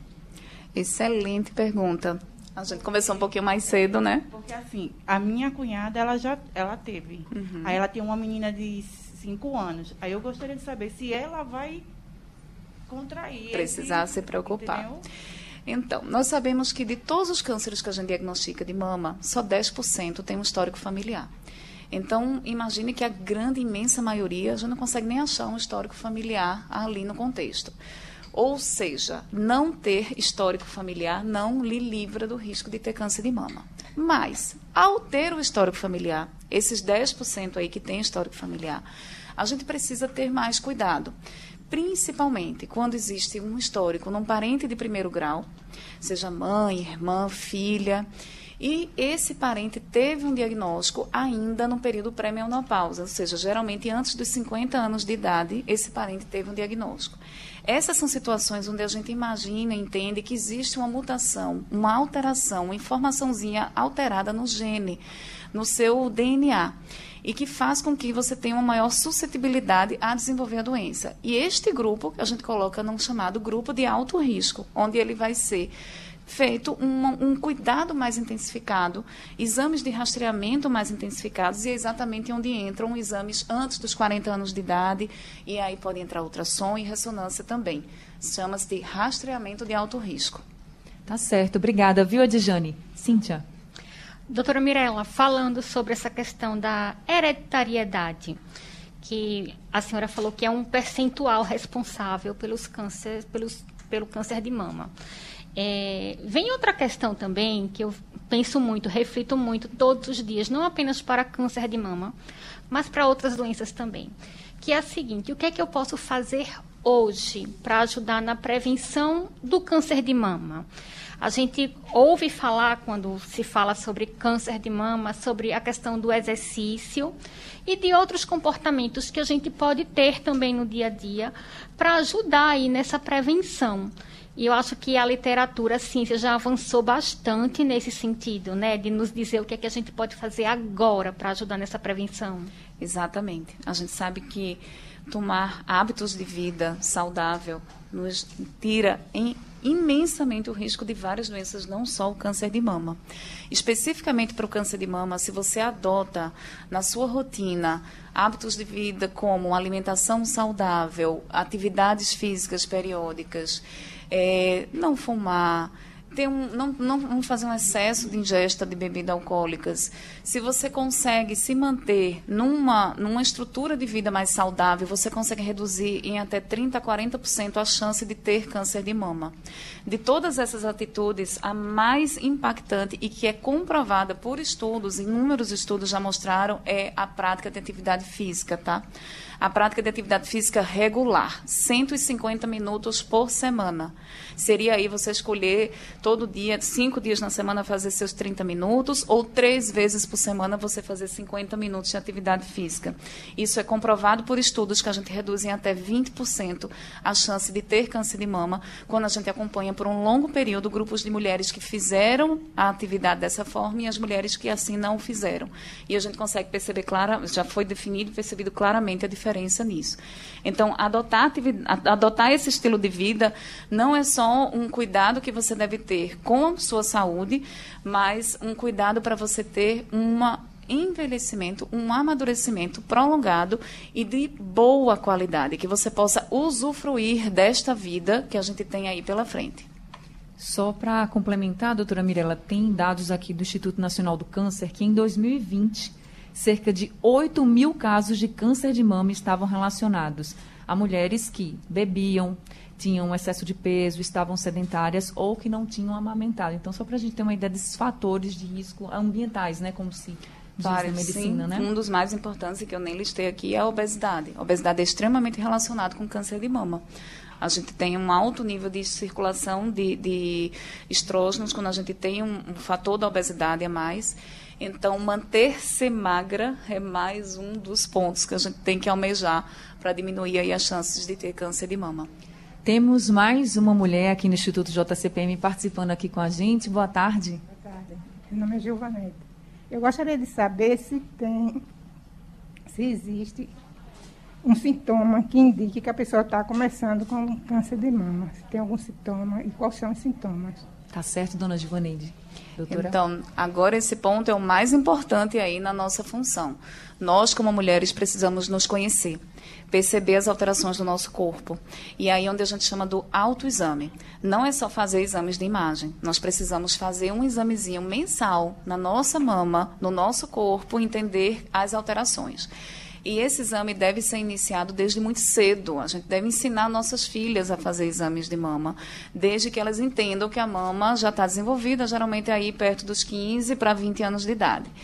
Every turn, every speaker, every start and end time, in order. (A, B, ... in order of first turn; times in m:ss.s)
0:00.7-0:04.2 A
0:04.3-0:11.8 B
0:07.3-0:07.8 A
0:12.9-0:15.0 B
0:13.5-0:14.9 A
0:15.6-0:21.3 A
0:21.9-0:27.7 A
0:28.3-0:38.8 A
0:39.4-0:41.1 A
0:41.7-0:45.4 A
0:46.0-0:48.1 A
0:48.6-1:05.0 A
1:05.5-1:15.7 A
1:16.3-1:30.4 A
1:31.1-1:33.4 C
1:34.3-1:38.4 D
1:39.0-1:44.9 D
1:45.5-1:52.1 D
1:52.7-2:00.6 D
2:01.2-2:07.1 D
2:07.6-2:22.5 D
2:22.8-2:33.0 A
2:33.5-2:59.3 A
2:59.8-3:08.8 A
3:09.4-3:59.6 A
4:00.4-4:21.7 C
4:20.6-4:26.8 A
4:27.4-4:42.1 A
4:42.6-4:47.4 C
4:47.5-4:51.6 E
4:52.7-4:53.5 E
4:54.4-5:00.6 E
5:00.9-5:02.9 C
5:02.7-5:09.2 A
5:09.7-5:22.5 A
5:23.0-5:34.7 A